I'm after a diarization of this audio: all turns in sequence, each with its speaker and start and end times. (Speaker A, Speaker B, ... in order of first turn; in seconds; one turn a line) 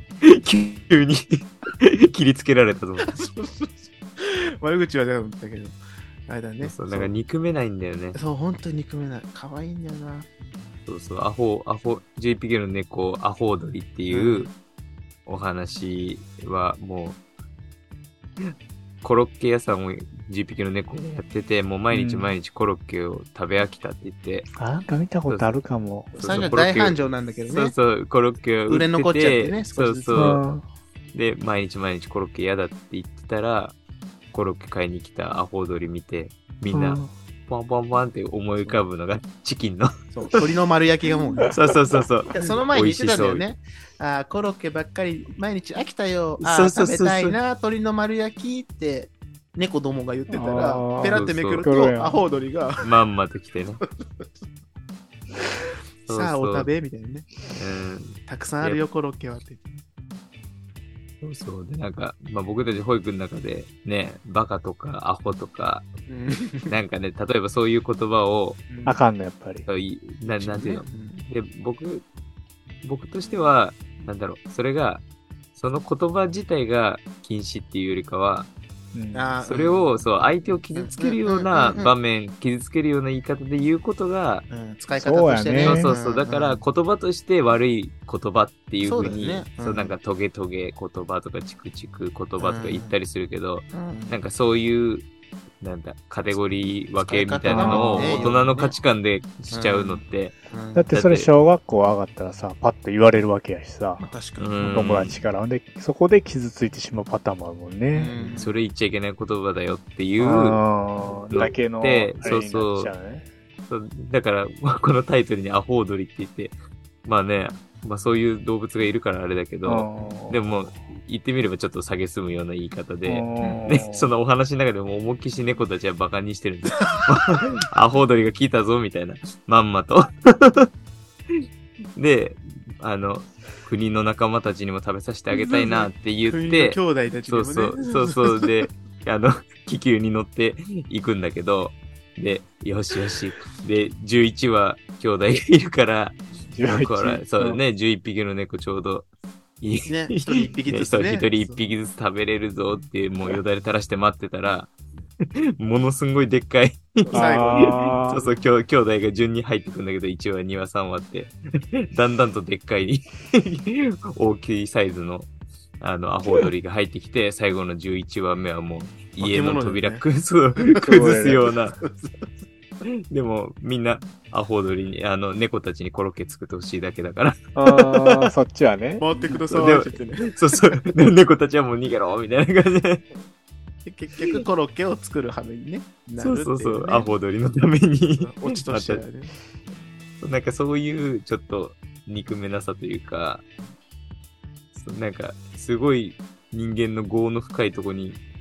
Speaker A: 0.2-3.2
Speaker B: 3.1-7.1
Speaker A: 6.6-8.2
Speaker B: 8.1-10.3
Speaker A: 10.8-14.5
Speaker B: 14.1-14.5
Speaker A: 15.2-17.2
Speaker A: 18.4-24.5
Speaker C: 21.9-22.3
Speaker C: 24.6-26.9
Speaker A: 25.3-25.5
Speaker A: 26.1-30.4
Speaker B: 26.1-27.7
Speaker B: 28.7-30.4
Speaker C: 30.1-30.6
Speaker A: 31.1-33.8
Speaker A: 34.3-40.4
Speaker C: 36.7-37.1
Speaker B: 40.1-41.5
Speaker A: 41.5-43.4
Speaker B: 42.3-52.9
Speaker A: 46.4-47.4
Speaker C: 50.3-52.2
Speaker A: 51.1-51.6
Speaker A: 52.8-53.8
Speaker B: 54.0-54.3
Speaker A: 56.0-56.7
Speaker B: 56.1-57.3
Speaker A: 57.5-58.8
Speaker B: 58.3-59.8
Speaker A: 61.2-65.9
Speaker B: 66.1-66.8
Speaker A: 66.7-68.6
Speaker B: 68.7-69.0
Speaker C: 68.8-69.7
Speaker A: 69.7-72.0
Speaker B: 70.2-71.2
Speaker A: 72.8-75.0
Speaker A: 75.5-78.5
Speaker C: 78.9-79.3
Speaker B: 79.1-81.9
Speaker A: 79.5-84.5
Speaker B: 84.5-86.6
Speaker C: 85.0-85.9
Speaker A: 85.6-95.1
Speaker B: 88.8-90.0
Speaker B: 92.4-92.9
Speaker B: 93.7-94.2
Speaker A: 95.6-100.3
Speaker B: 97.0-98.8
Speaker C: 97.5-98.3
Speaker B: 99.5-100.9
Speaker C: 100.7-104.1
Speaker A: 100.9-101.3
Speaker B: 104.0-105.1
Speaker A: 104.4-105.2
Speaker C: 104.7-108.1
Speaker B: 107.9-108.6
Speaker A: 108.1-110.6
Speaker C: 110.2-113.3
Speaker A: 111.3-112.9
Speaker A: 113.7-130.7
Speaker C: 119.7-120.7
Speaker C: 123.0-124.1
Speaker B: 123.4-123.7
Speaker A: 132.0-149.1
Speaker B: 135.3-138.7
Speaker C: 146.5-147.6
Speaker A: 149.6-171.8
Speaker B: 149.8-151.7
Speaker B: 157.0-158.4
Speaker C: 157.1-158.2
Speaker B: 169.2-170.0
Speaker B: 170.7-171.1
Speaker C: 170.8-171.4
Speaker B: 171.8-172.3
Speaker A: 173.1-178.3
Speaker C: 177.5-179.0
Speaker B: 179.0-180.3
Speaker A: 179.2-183.1
Speaker B: 183.8-187.1
Speaker A: 186.2-189.0
Speaker B: 188.2-189.4
Speaker A: 190.2-193.4
Speaker A: 194.7-198.2